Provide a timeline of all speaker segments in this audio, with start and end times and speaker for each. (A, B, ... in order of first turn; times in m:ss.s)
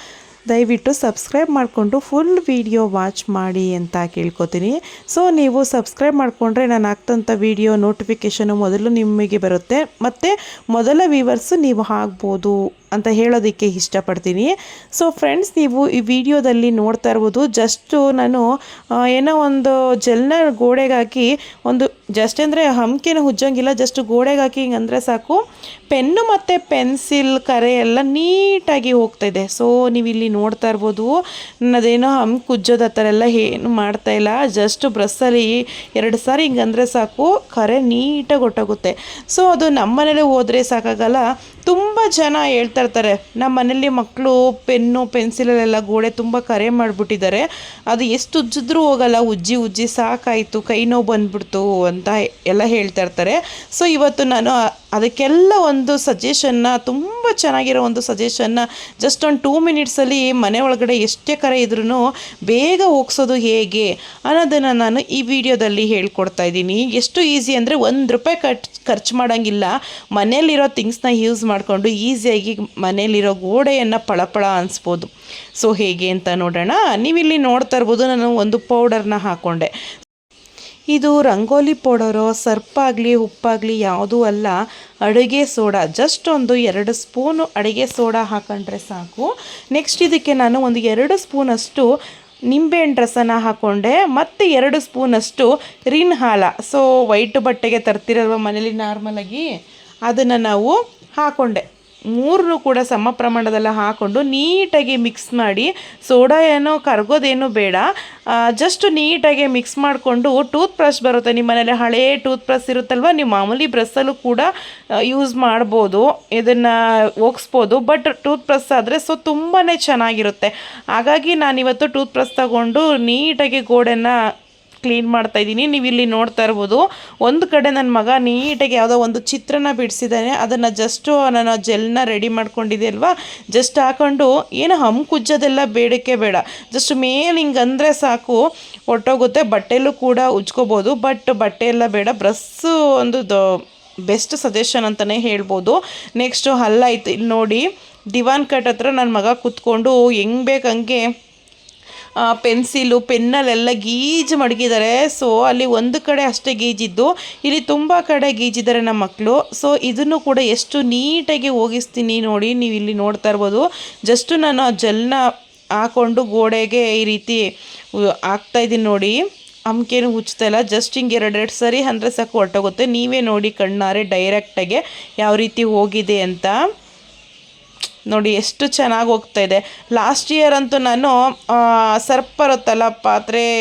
0:00.5-0:18.5 A
0:19.0-0:25.4 A
0:25.9-1:19.7 A
1:20.9-1:31.9 A
1:32.5-1:39.4 A
1:40.1-1:41.6 A
1:42.1-1:47.8 A
1:48.4-1:54.5 A
1:55.1-2:04.1 A
2:04.8-2:23.4 A
2:24.1-2:31.0 A
2:32.2-2:45.2 A
2:45.8-2:47.4 A
2:48.3-2:56.6 A
2:58.1-3:03.5 A